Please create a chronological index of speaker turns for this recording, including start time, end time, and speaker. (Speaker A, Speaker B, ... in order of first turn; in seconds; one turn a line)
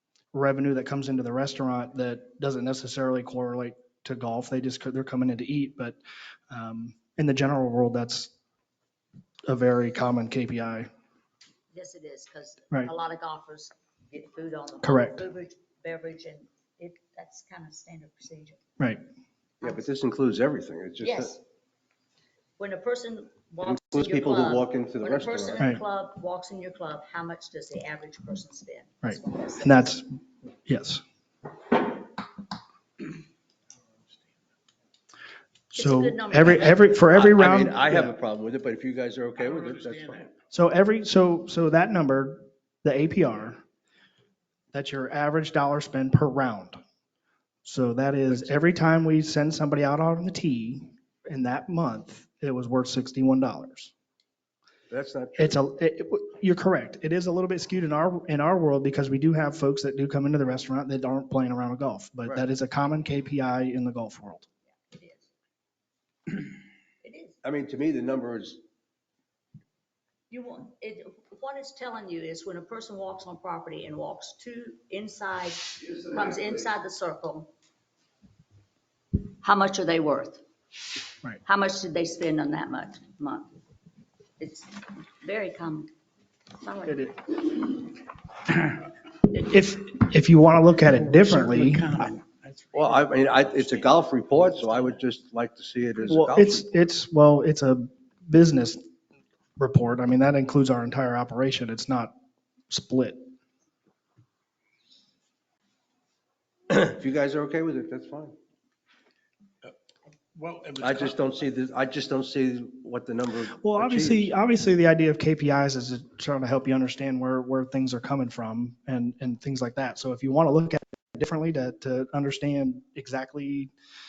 Speaker A: 0.3-6.0
Speaker A: 6.5-8.3
Speaker A: 9.4-10.9
Speaker B: 11.7-18.6
Speaker A: 14.8-15.2
Speaker C: 19.6-21.4
Speaker B: 21.0-21.4
Speaker B: 22.6-29.9
Speaker C: 23.6-25.6
Speaker A: 29.0-31.0
Speaker B: 35.7-36.8
Speaker A: 35.7-38.1
Speaker C: 37.1-40.3
Speaker A: 40.5-43.6
Speaker A: 44.7-46.8
Speaker A: 47.6-53.9
Speaker C: 54.9-55.6
Speaker A: 55.4-64.5
Speaker B: 64.7-65.3
Speaker B: 67.0-67.4
Speaker C: 67.4-68.6
Speaker B: 70.3-77.5
Speaker B: 79.2-80.4
Speaker B: 81.4-83.5
Speaker B: 84.4-85.9
Speaker B: 86.6-87.0
Speaker A: 86.8-87.2
Speaker A: 89.3-92.0
Speaker D: 91.2-93.0
Speaker C: 92.7-96.7
Speaker A: 96.0-98.8
Speaker A: 99.6-102.1
Speaker A: 102.7-103.2
Speaker C: 106.7-108.3
Speaker D: 110.3-111.0
Speaker C: 110.8-114.3
Speaker A: 113.6-123.7